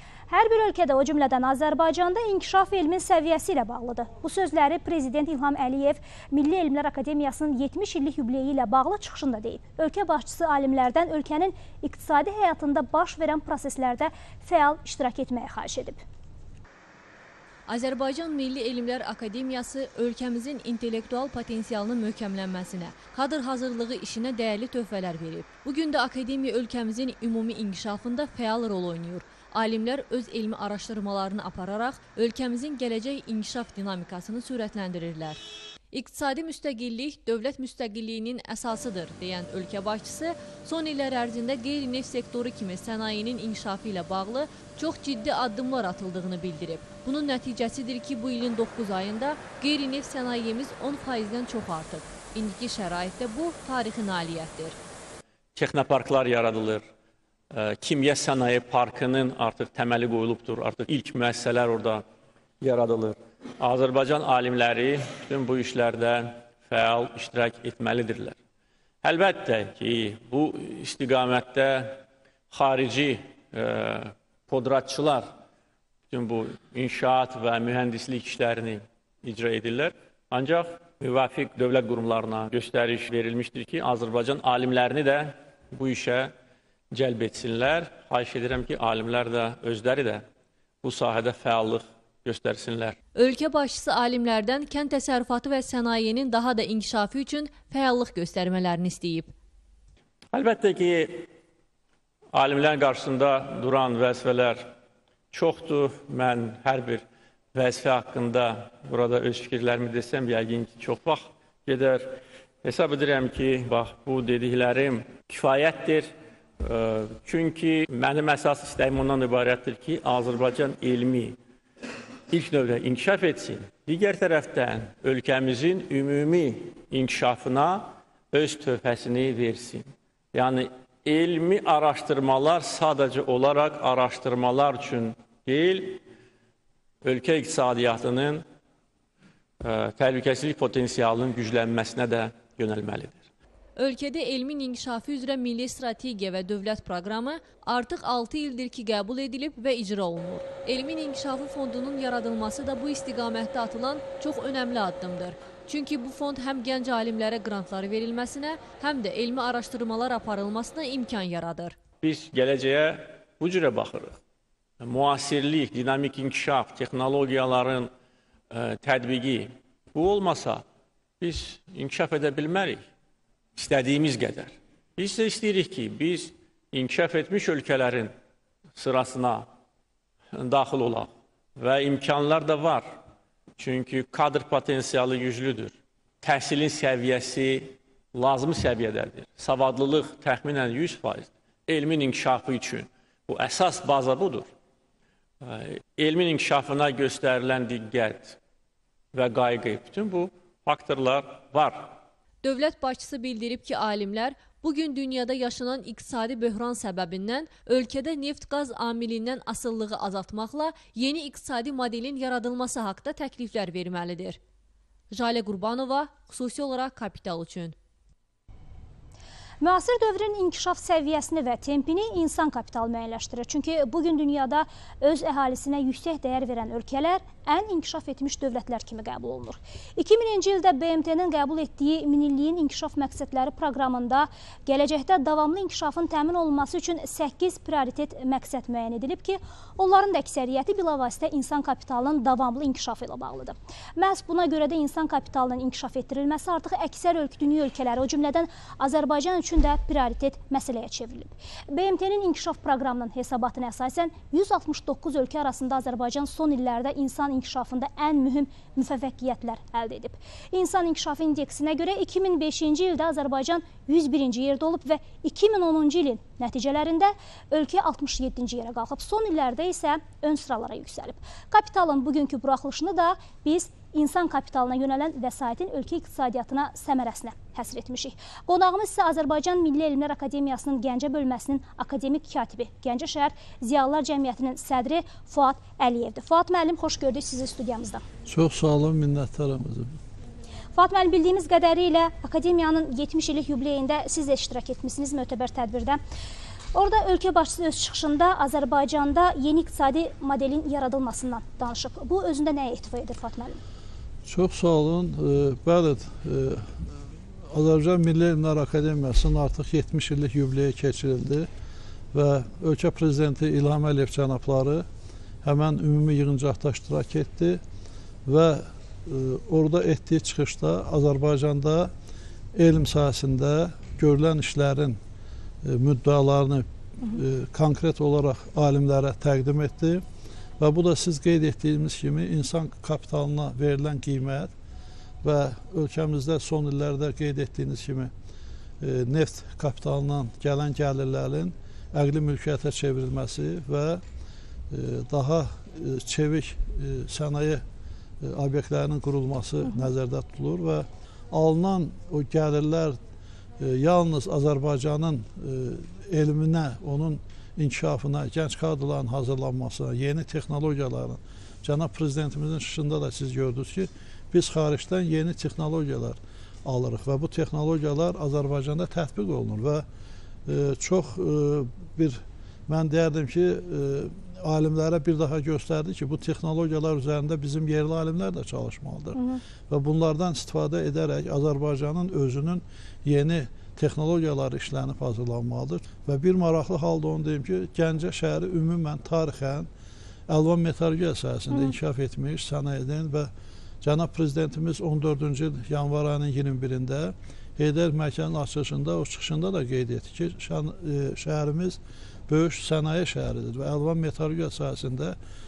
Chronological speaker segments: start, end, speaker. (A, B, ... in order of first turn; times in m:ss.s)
0:00.3-0:16.0 A
0:17.7-0:35.4 B
0:35.9-0:54.8 B
0:55.6-0:56.8 C
0:57.5-1:02.0 C
1:02.6-1:08.4 C
1:09.0-1:15.3 C
1:16.1-1:26.3 C
1:26.9-1:30.2 C
1:30.8-1:33.0 C
1:33.1-1:39.3 B
1:40.3-1:41.3 C
1:42.3-1:44.7 C
1:45.3-1:47.0 C
1:47.5-2:01.4 C
2:02.3-2:16.0 C
2:17.0-2:18.4 C
2:19.6-2:23.2 C
2:23.8-2:41.8 B
2:42.0-2:44.2 C
2:44.8-2:47.9 C
2:48.5-2:50.6 C
2:51.2-2:52.8 C
2:53.6-2:58.1 C
2:58.8-2:59.5 C
3:00.3-3:02.9 C
3:03.6-3:14.5 C
3:15.4-3:18.4 C
3:19.1-3:22.0 C
3:22.4-3:34.4 B
3:35.1-3:37.8 B
3:39.6-4:48.0 A
4:48.3-4:49.9 D
4:50.8-4:56.0 A
4:56.7-5:03.6 A
5:04.2-5:11.5 D
5:12.1-5:14.9 D
5:15.4-5:17.6 D
5:18.3-5:21.9 D
5:22.6-5:25.0 D
5:25.6-5:30.0 D
5:30.6-5:34.5 D
5:35.2-5:38.1 D
5:38.8-5:44.0 D
5:44.7-5:47.6 D
5:48.2-5:53.0 D
5:53.6-6:09.8 D
6:10.5-6:29.7 D
6:19.2-6:19.4 A
6:30.3-6:33.3 D
6:31.5-6:31.8 A
6:33.8-6:45.2 D